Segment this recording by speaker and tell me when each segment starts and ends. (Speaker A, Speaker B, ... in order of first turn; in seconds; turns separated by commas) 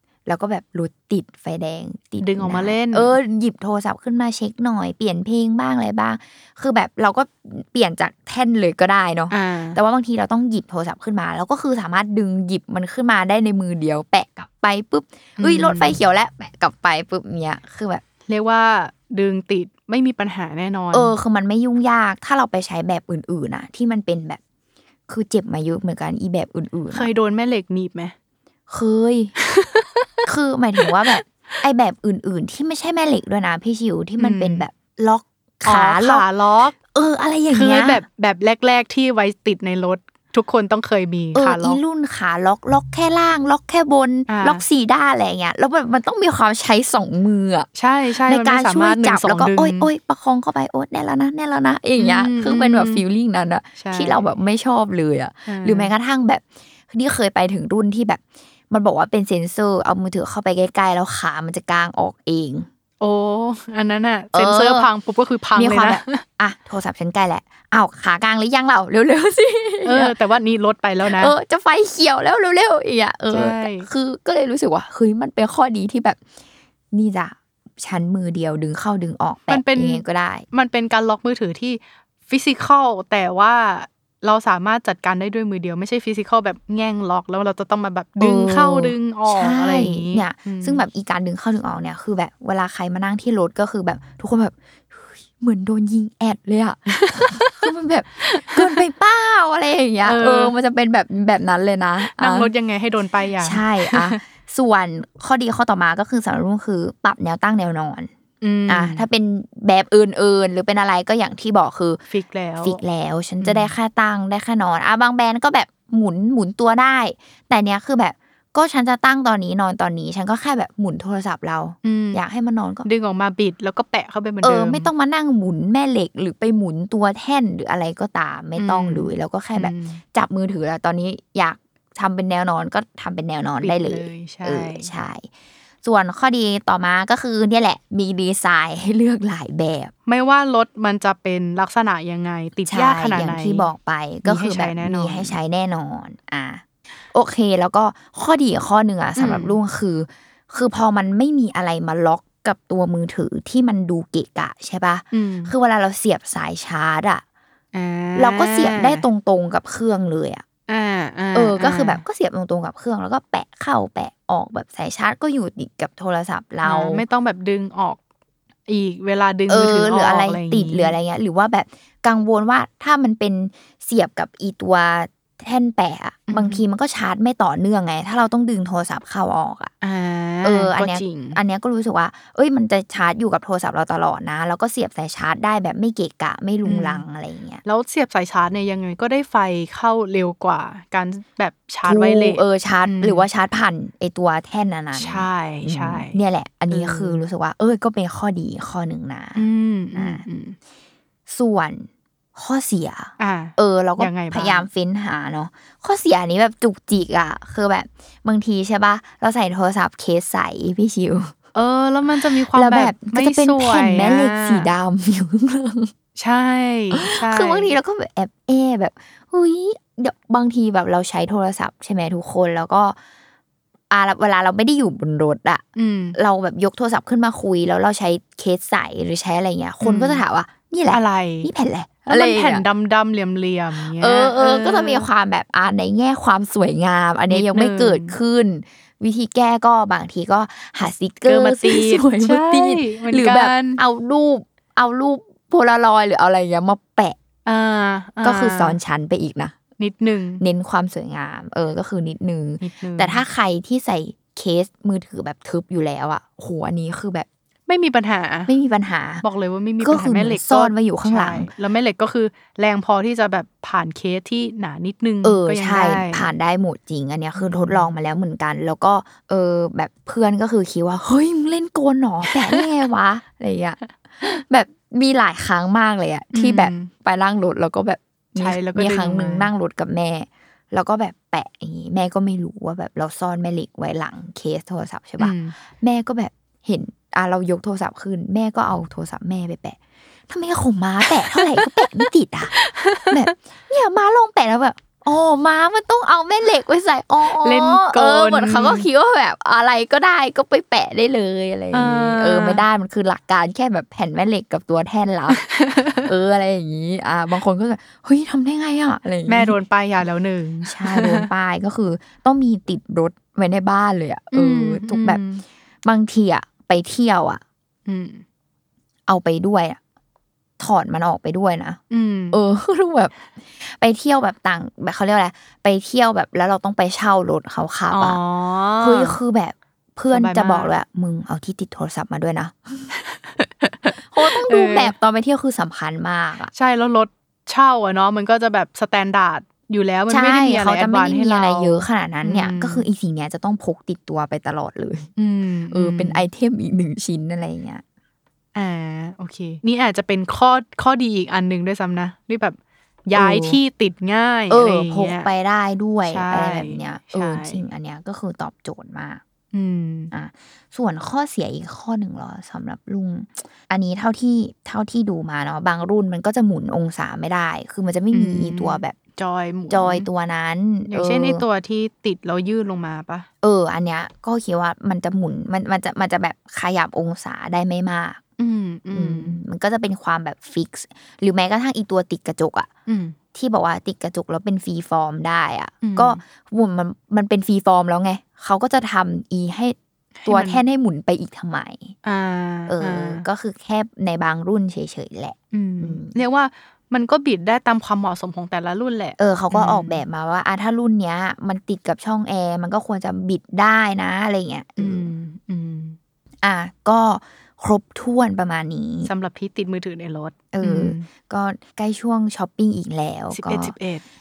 Speaker A: 0.2-18.0, Speaker B: 2.2-3.1, Speaker B: 9.3-9.8, Speaker B: 15.4-16.0, Speaker B: 18.3-21.1, Speaker A: 20.9-24.4, Speaker A: 25.1-27.1, Speaker B: 26.9-28.1, Speaker A: 28.7-29.3, Speaker B: 29.4-30.1, Speaker A: 30.2-36.2, Speaker B: 30.8-31.2, Speaker B: 34.2-34.7, Speaker B: 35.6-36.8, Speaker A: 36.9-38.0, Speaker B: 37.5-41.8, Speaker A: 41.3-47.7, Speaker B: 44.3-44.6, Speaker B: 47.7-49.9, Speaker A: 48.2-62.7, Speaker B: 52.0-53.0, Speaker B: 53.8-54.3, Speaker B: 55.5-55.9, Speaker B: 63.0-66.2, Speaker A: 64.3-64.9, Speaker A: 65.5-70.2, Speaker B: 69.8-71.3, Speaker A: 71.0-76.2, Speaker B: 73.3-73.9, Speaker A: 76.9-80.5, Speaker B: 79.5-90.8, Speaker A: 88.2-102.5, Speaker B: 97.1-97.7, Speaker B: 98.3-98.8, Speaker B: 100.0-100.5, Speaker B: 102.0-104.2, Speaker A: 103.4-108.1, Speaker B: 108.4-109.0, Speaker A: 108.7-112.0, Speaker B: 112.1-112.8, Speaker A: 112.6-122.9, Speaker B: 113.4-113.7, Speaker B: 121.8-122.2, Speaker B: 122.8-124.9, Speaker A: 124.4-135.3, Speaker B: 128.6-130.0, Speaker B: 133.6-134.9, Speaker A: 135.8-139.9, Speaker B: 140.1-143.7, Speaker A: 142.7-157.2, Speaker B: 144.2-145.3, Speaker B: 149.2-149.6, Speaker B: 155.1-155.5, Speaker B: 157.7-159.0, Speaker A: 158.2-160.4, Speaker B: 160.7-162.0, Speaker A: 161.3-167.0, Speaker B: 166.6-168.0, Speaker B: 168.7-170.9, Speaker A: 169.5-179.7, Speaker B: 176.3-176.6, Speaker B: 179.8-181.4, Speaker A: 180.4-187.6, Speaker B: 186.6-187.0, Speaker B: 187.6-193.3, Speaker A: 191.8-200.2, Speaker B: 194.9-196.2, Speaker B: 196.7-197.2, Speaker B: 199.3-200.6, Speaker A: 201.3-211.3, Speaker B: 203.2-204.7, Speaker B: 211.5-214.7, Speaker A: 212.4-215.9, Speaker B: 216.2-217.7, Speaker A: 216.9-223.0, Speaker A: 223.9-225.6, Speaker B: 225.8-226.2, Speaker A: 226.1-232.6, Speaker B: 229.8-230.2, Speaker B: 230.9-231.5, Speaker B: 232.1-235.1, Speaker A: 233.9-247.2, Speaker B: 237.3-238.2, Speaker B: 241.2-243.8, Speaker B: 247.4-248.8, Speaker A: 248.2-249.6, Speaker B: 249.8-250.4, Speaker A: 250.4-257.3, Speaker B: 252.6-253.2, Speaker B: 257.7-258.5, Speaker A: 258.5-259.2, Speaker B: 259.2-266.3, Speaker A: 259.8-261.5, Speaker A: 265.2-289.8, Speaker B: 267.4-267.9, Speaker B: 272.3-272.6, Speaker B: 276.3-276.9, Speaker B: 278.4-279.5, Speaker B: 285.2-285.5, Speaker A: 290.3-292.5, Speaker B: 291.0-293.3, Speaker A: 293.1-305.4, Speaker B: 297.2-298.9, Speaker B: 301.7-302.6, Speaker B: 305.3-306.1, Speaker A: 306.0-309.6, Speaker B: 309.2-311.3, Speaker A: 310.6-315.2, Speaker B: 314.3-315.4, Speaker A: 315.8-317.4, Speaker B: 317.9-318.2, Speaker A: 319.1-319.8, Speaker A: 320.6-321.8, Speaker B: 321.9-322.4, Speaker A: 322.3-328.2, Speaker B: 327.9-329.2, Speaker A: 328.8-332.9, Speaker B: 330.1-330.7, Speaker B: 333.0-334.9, Speaker A: 334.1-336.5, Speaker B: 336.5-342.9, Speaker A: 340.1-345.1, Speaker B: 345.2-346.2, Speaker A: 345.7-347.8, Speaker B: 348.5-355.3, Speaker A: 353.1-353.6, Speaker A: 354.5-359.2, Speaker B: 356.1-357.6, Speaker B: 359.5-360.1, Speaker A: 360.1-368.9, Speaker B: 368.1-370.1, Speaker A: 369.7-371.4, Speaker B: 370.9-373.3, Speaker A: 373.4-378.2, Speaker B: 378.4-379.4, Speaker A: 378.9-382.7, Speaker B: 382.9-383.2, Speaker A: 383.3-391.9, Speaker B: 385.8-386.2, Speaker B: 390.2-390.6, Speaker B: 392.0-393.2, Speaker A: 392.7-396.1, Speaker B: 395.5-400.0, Speaker A: 399.2-405.1, Speaker B: 404.8-406.0, Speaker A: 406.4-409.1, Speaker B: 409.0-411.1, Speaker A: 410.5-413.7, Speaker B: 413.3-414.0